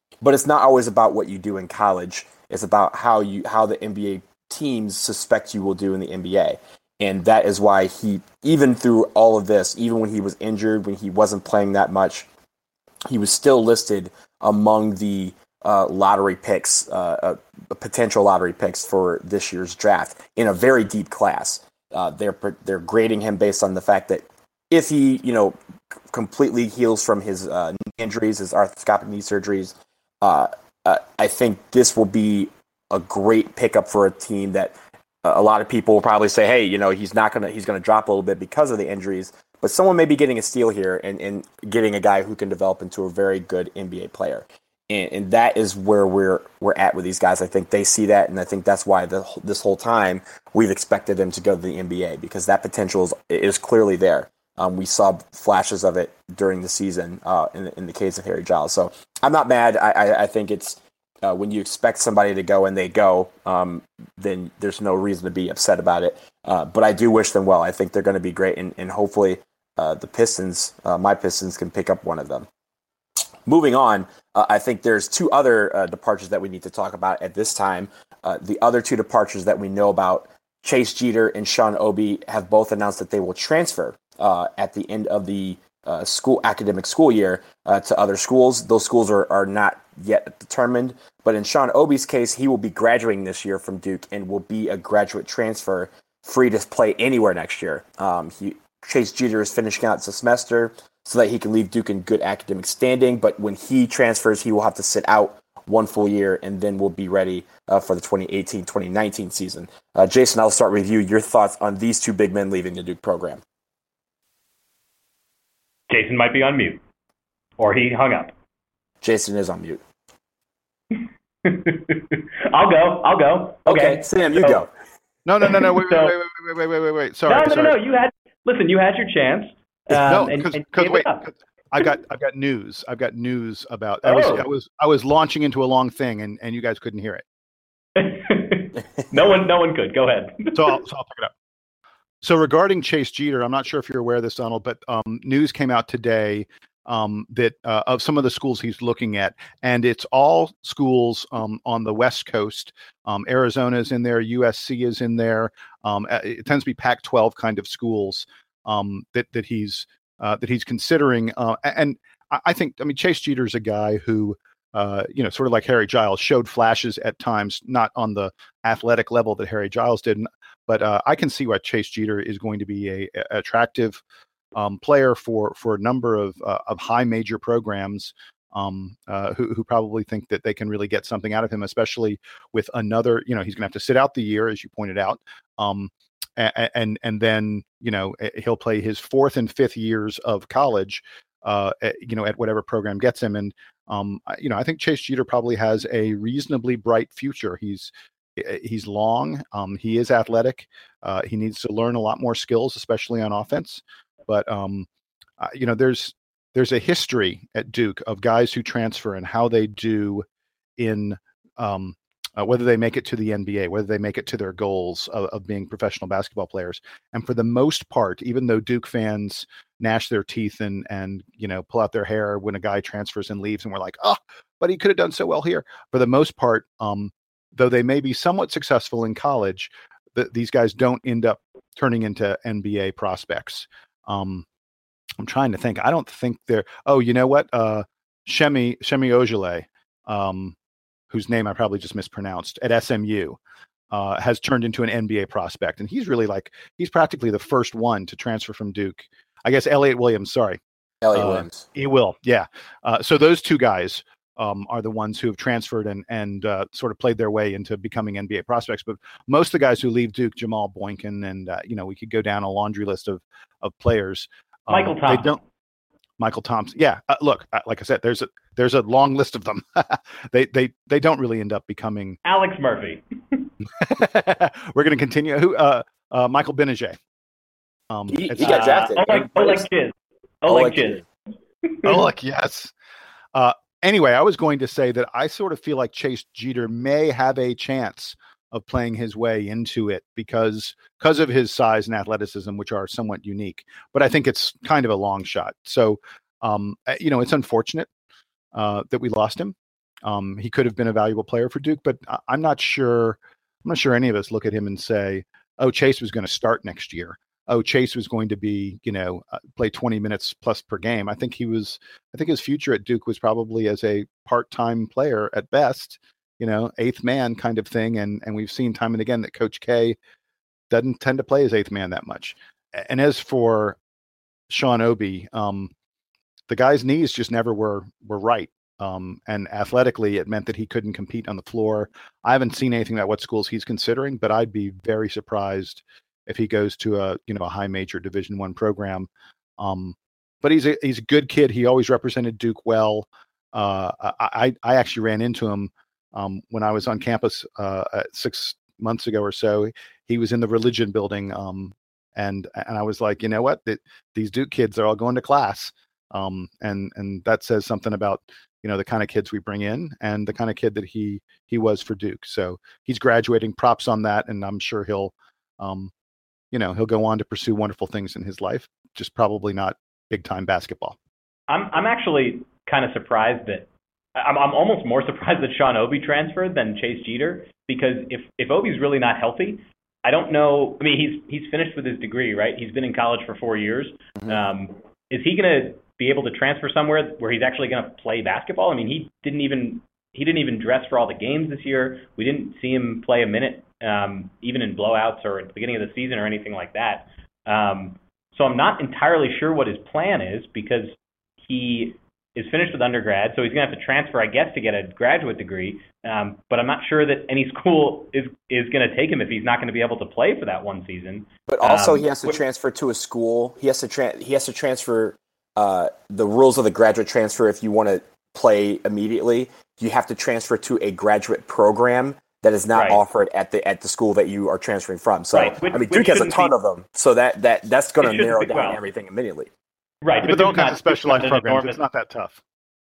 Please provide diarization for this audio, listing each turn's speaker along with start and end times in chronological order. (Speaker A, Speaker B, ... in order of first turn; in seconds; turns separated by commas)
Speaker A: 0.2-12.3, Speaker A: 13.1-25.6, Speaker A: 26.1-72.5, Speaker A: 73.5-113.4, Speaker B: 115.9-116.8, Speaker B: 117.6-118.3, Speaker A: 119.0-119.8, Speaker B: 120.9-124.6, Speaker A: 123.7-124.7, Speaker C: 125.2-127.8, Speaker B: 125.4-126.1, Speaker B: 127.3-131.3, Speaker C: 129.9-137.2, Speaker B: 134.1-134.5, Speaker B: 138.0-140.8, Speaker C: 140.6-141.3, Speaker C: 142.2-174.0, Speaker C: 174.6-204.9, Speaker C: 205.4-210.2, Speaker C: 210.8-234.4, Speaker C: 235.2-240.6, Speaker C: 241.1-243.4, Speaker C: 243.9-250.6, Speaker A: 251.0-251.7, Speaker C: 251.1-265.4, Speaker B: 264.7-265.4, Speaker C: 266.2-272.2, Speaker B: 272.2-273.5, Speaker C: 273.8-277.0, Speaker C: 277.9-278.7, Speaker A: 278.1-279.6, Speaker B: 278.4-281.0, Speaker A: 280.5-281.0, Speaker B: 281.7-282.1, Speaker C: 281.8-282.7, Speaker C: 283.3-297.9, Speaker C: 298.5-299.5, Speaker C: 300.1-320.0, Speaker C: 320.7-323.8, Speaker C: 324.5-325.7, Speaker C: 326.5-339.1, Speaker C: 339.6-365.9, Speaker C: 366.5-371.0, Speaker B: 371.5-412.4, Speaker A: 411.5-429.5, Speaker B: 422.7-423.0, Speaker B: 425.3-426.6, Speaker B: 428.0-428.8, Speaker B: 430.0-431.8, Speaker C: 430.2-432.4